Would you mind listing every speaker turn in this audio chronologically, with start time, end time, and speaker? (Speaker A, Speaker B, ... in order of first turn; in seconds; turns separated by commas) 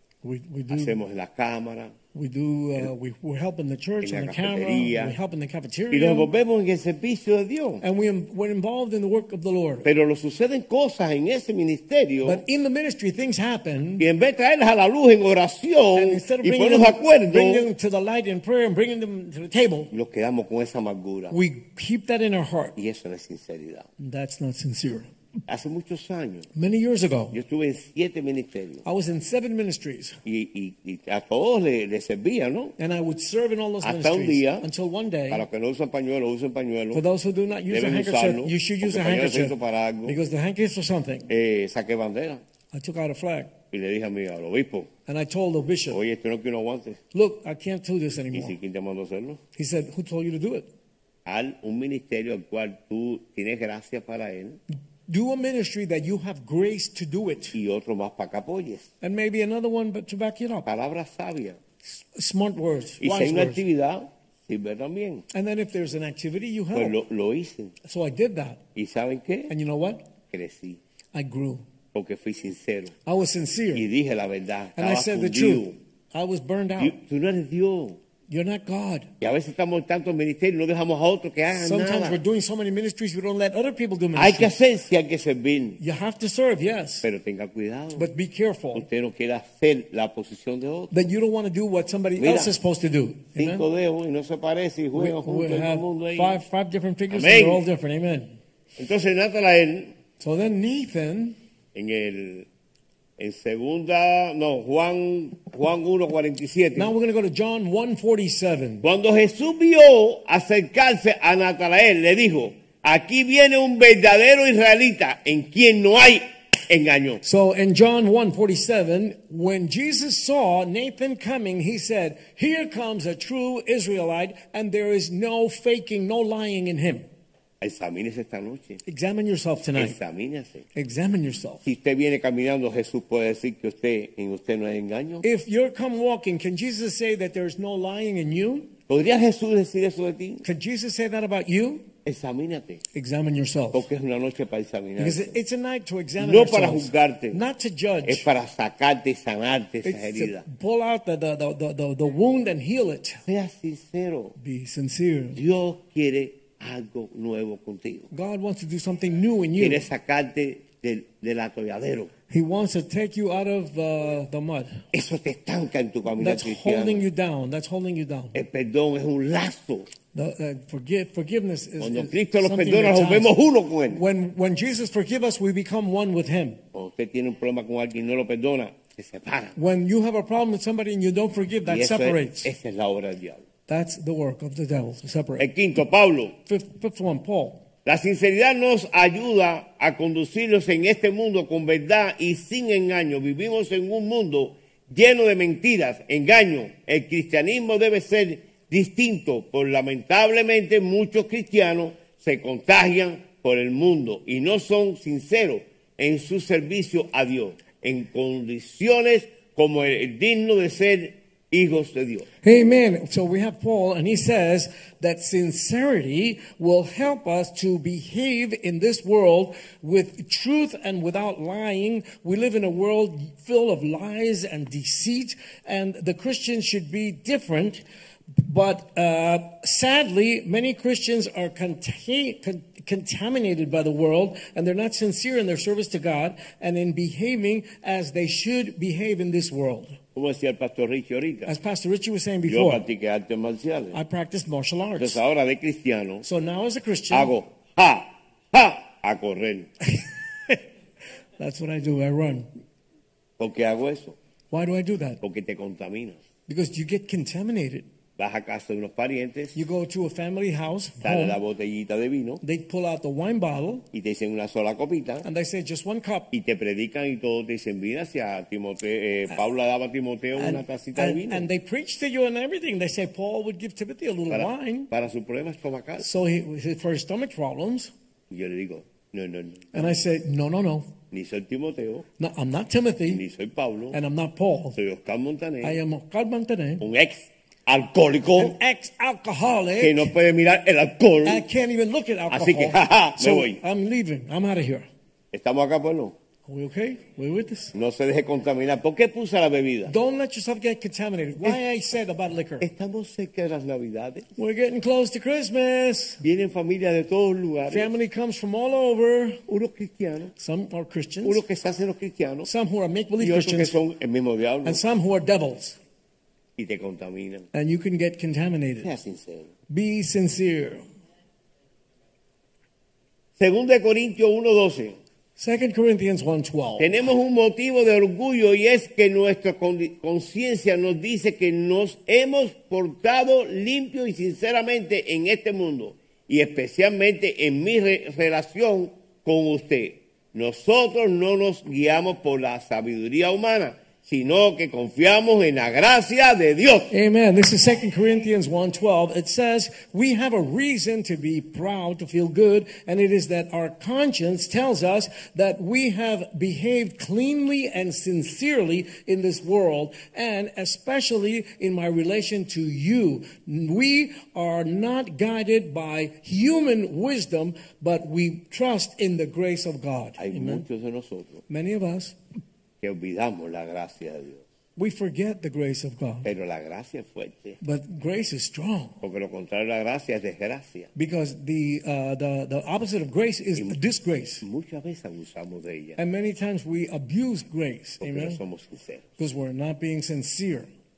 Speaker A: 0.2-1.0, Speaker B: 0.7-1.9, Speaker A: 2.1-6.3, Speaker B: 4.0-5.2, Speaker B: 5.9-7.8, Speaker A: 7.8-9.9, Speaker B: 9.8-12.4, Speaker A: 12.2-14.1, Speaker B: 14.0-17.7, Speaker A: 15.9-19.9, Speaker B: 19.9-21.4, Speaker A: 21.3-22.8, Speaker B: 22.8-23.9, Speaker A: 24.0-25.1, Speaker B: 25.5-26.5, Speaker A: 26.5-27.4, Speaker B: 27.3-28.8, Speaker A: 28.9-30.2, Speaker B: 30.2-32.8, Speaker A: 32.8-35.5, Speaker B: 33.8-34.7, Speaker B: 35.3-37.0, Speaker A: 36.9-41.3, Speaker B: 37.7-40.2, Speaker B: 41.3-42.4, Speaker A: 42.7-43.5, Speaker B: 43.7-44.9, Speaker A: 45.1-46.0, Speaker B: 45.9-47.0, Speaker A: 47.1-48.6, Speaker B: 48.3-49.4, Speaker A: 49.5-50.7, Speaker B: 51.3-54.6, Speaker A: 55.1-57.6, Speaker B: 57.5-58.9, Speaker A: 59.0-60.7, Speaker B: 60.6-61.6, Speaker A: 61.9-63.6, Speaker B: 63.0-65.2, Speaker A: 65.3-67.0, Speaker B: 66.7-67.8, Speaker A: 67.8-68.6, Speaker B: 68.8-69.5, Speaker A: 69.5-70.0, Speaker B: 70.3-70.8, Speaker A: 71.1-71.6, Speaker B: 71.9-72.9, Speaker A: 73.1-73.9, Speaker B: 73.7-75.8, Speaker A: 74.8-77.0, Speaker B: 76.8-78.0, Speaker A: 78.3-79.1, Speaker B: 79.2-82.2, Speaker A: 81.5-84.5, Speaker B: 84.2-85.8, Speaker A: 85.8-87.1, Speaker B: 87.0-88.1, Speaker A: 88.0-88.9, Speaker B: 88.7-90.9, Speaker A: 90.9-93.6, Speaker B: 92.2-92.5, Speaker B: 93.4-96.4, Speaker A: 94.9-98.4, Speaker B: 97.1-97.7, Speaker B: 98.8-99.9, Speaker A: 100.2-101.4, Speaker B: 101.7-102.5, Speaker B: 103.2-106.9, Speaker A: 106.8-108.8, Speaker B: 108.8-117.2, Speaker A: 117.2-127.1, Speaker B: 127.6-128.8, Speaker A: 128.9-130.0, Speaker B: 129.8-130.7, Speaker A: 130.8-131.7, Speaker B: 131.7-135.2, Speaker A: 135.2-138.7, Speaker B: 138.9-140.4, Speaker A: 140.4-141.9, Speaker B: 142.1-142.8, Speaker A: 142.9-143.9, Speaker B: 143.7-145.4, Speaker A: 145.0-148.3, Speaker B: 146.2-147.4, Speaker B: 148.1-150.4, Speaker A: 149.8-153.2, Speaker B: 153.3-154.3, Speaker A: 154.4-155.4, Speaker B: 155.3-158.1, Speaker A: 158.1-159.8, Speaker B: 159.6-162.1, Speaker A: 162.3-164.8, Speaker B: 164.9-167.0, Speaker A: 166.2-168.3, Speaker B: 168.3-169.9, Speaker A: 170.1-173.3, Speaker B: 171.8-174.0, Speaker A: 173.9-176.6, Speaker B: 176.7-179.6, Speaker A: 179.6-182.5, Speaker B: 181.7-183.4, Speaker A: 183.7-185.5, Speaker B: 185.4-186.3, Speaker A: 186.5-187.6, Speaker B: 187.8-212.3, Speaker A: 212.4-227.8, Speaker A: 228.4-240.0, Speaker B: 240.2-241.5, Speaker A: 241.5-242.8, Speaker B: 242.5-244.0, Speaker A: 243.9-245.2, Speaker B: 245.0-246.2, Speaker A: 246.2-247.3, Speaker B: 247.1-249.7, Speaker A: 249.8-250.6, Speaker A: 251.4-252.5, Speaker B: 253.4-254.2, Speaker A: 254.5-255.2, Speaker B: 255.2-256.2, Speaker A: 256.5-257.9, Speaker B: 258.2-259.6, Speaker A: 259.6-261.4, Speaker B: 261.0-262.4, Speaker A: 262.4-263.9, Speaker B: 263.9-265.3, Speaker A: 265.2-266.3, Speaker B: 266.3-271.5, Speaker A: 270.4-274.9, Speaker B: 274.3-276.1, Speaker A: 276.0-277.9, Speaker B: 278.3-280.0, Speaker A: 279.7-280.9, Speaker B: 281.1-282.1, Speaker A: 282.2-283.2, Speaker B: 283.1-284.0, Speaker A: 283.9-284.8, Speaker B: 284.8-285.8, Speaker A: 285.6-286.9, Speaker B: 286.8-288.6, Speaker A: 288.4-290.1, Speaker B: 289.8-291.4, Speaker A: 291.2-294.9, Speaker B: 292.3-293.6, Speaker B: 295.3-296.1, Speaker A: 296.5-297.7, Speaker B: 297.7-299.9, Speaker A: 299.9-302.7, Speaker B: 302.6-304.3, Speaker A: 304.4-306.2, Speaker B: 306.2-307.9, Speaker A: 307.7-309.4, Speaker B: 309.5-310.3, Speaker A: 310.4-311.4, Speaker B: 311.2-312.5, Speaker A: 312.4-313.8, Speaker B: 313.2-314.8, Speaker A: 314.6-315.8, Speaker B: 316.6-317.5, Speaker A: 317.5-318.9, Speaker B: 318.8-319.5, Speaker A: 319.7-320.8, Speaker B: 323.4-325.0, Speaker A: 325.4-327.0, Speaker B: 326.8-346.9, Speaker A: 346.9-370.6, Speaker B: 370.2-371.4, Speaker A: 371.5-372.2, Speaker B: 372.8-374.4, Speaker A: 374.8-376.3, Speaker B: 376.2-377.6, Speaker A: 377.6-379.0, Speaker B: 379.0-380.9, Speaker A: 380.9-384.4, Speaker B: 384.4-386.0, Speaker A: 386.0-388.4, Speaker B: 388.0-389.1, Speaker A: 389.2-390.7